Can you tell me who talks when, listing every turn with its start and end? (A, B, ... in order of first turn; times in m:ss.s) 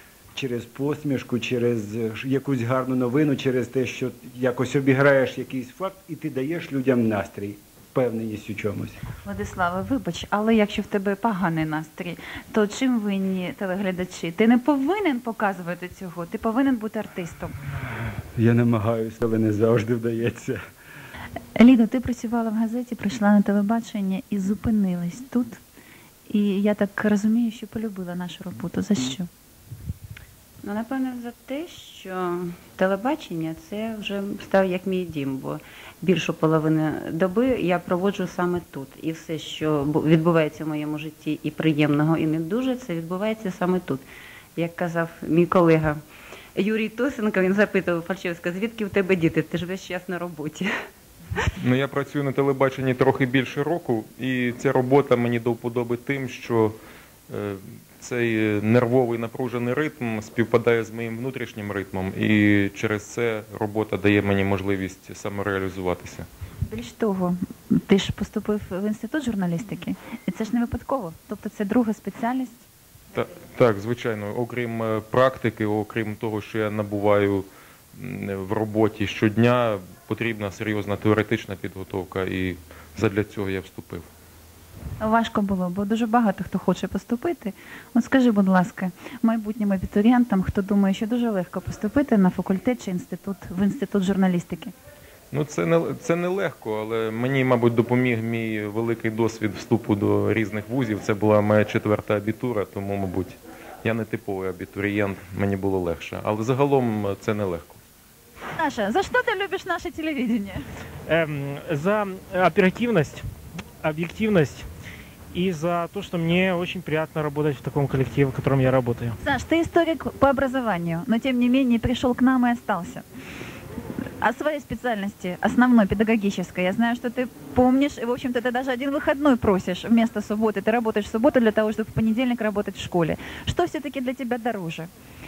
0:00.3-0:09.0 A
0:09.2-0:17.5 B
0:18.4-0:20.6 A
0:21.6-0:25.6 B
0:26.3-0:29.3 B
0:30.6-0:44.0 C
0:44.6-0:46.0 C
0:46.6-0:50.7 C
0:51.6-0:56.8 D
0:57.3-1:06.3 D
1:06.7-1:12.6 B
1:13.2-1:24.1 D
1:25.0-1:34.7 B
1:35.3-1:47.8 D
1:48.6-1:50.6 B
1:51.1-1:53.2 E
1:53.8-1:54.7 E
1:55.3-1:59.2 E
1:59.2-2:03.0 B
2:04.2-2:14.9 B